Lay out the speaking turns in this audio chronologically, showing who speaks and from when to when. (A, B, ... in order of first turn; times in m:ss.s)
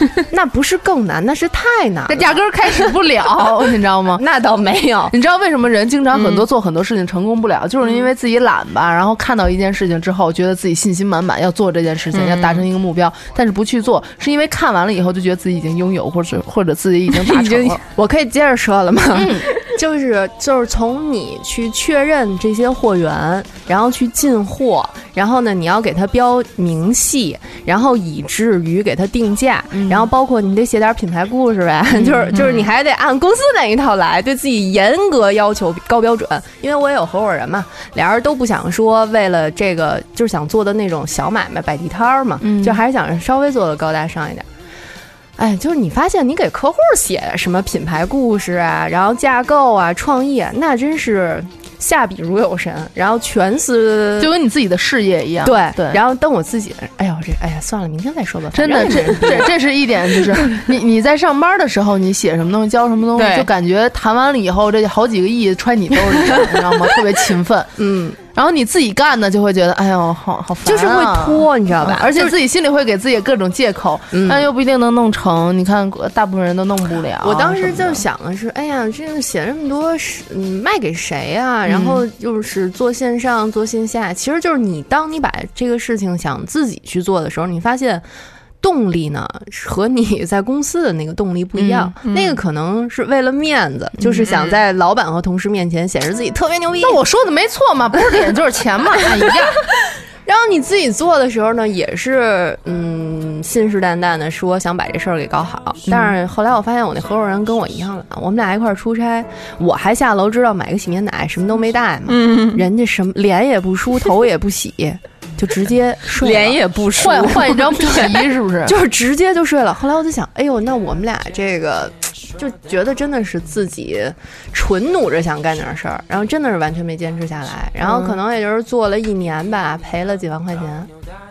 0:00.2-0:02.9 A
0:02.1-0:04.2 B
0:04.2-0:05.1 A
0:05.1-0:17.8 B
0:12.1-0:12.6 C
0:17.7-0:44.5 A
0:19.1-0:19.5 B
0:29.7-0:30.1 B
0:32.0-0:32.4 B
0:42.4-0:42.8 B
0:45.4-0:54.3 A
0:54.2-0:56.0 B
0:55.4-0:59.6 A
0:58.5-1:07.8 B
1:03.2-1:03.5 C
1:07.8-1:08.2 A
1:08.4-1:18.0 B
1:10.6-1:12.3 A
1:14.1-1:14.5 A
1:17.2-1:28.0 A
1:21.7-1:22.0 B
1:28.6-1:37.0 A
1:31.6-1:31.9 B
1:32.1-1:32.4 C
1:36.8-1:39.6 B
1:40.2-1:56.6 A
1:45.9-1:46.2 B
1:52.1-1:52.6 C
1:56.2-1:57.7 C
1:57.0-1:58.8 B
1:57.7-1:58.1 A
1:58.7-2:10.9 A
2:07.9-2:08.2 B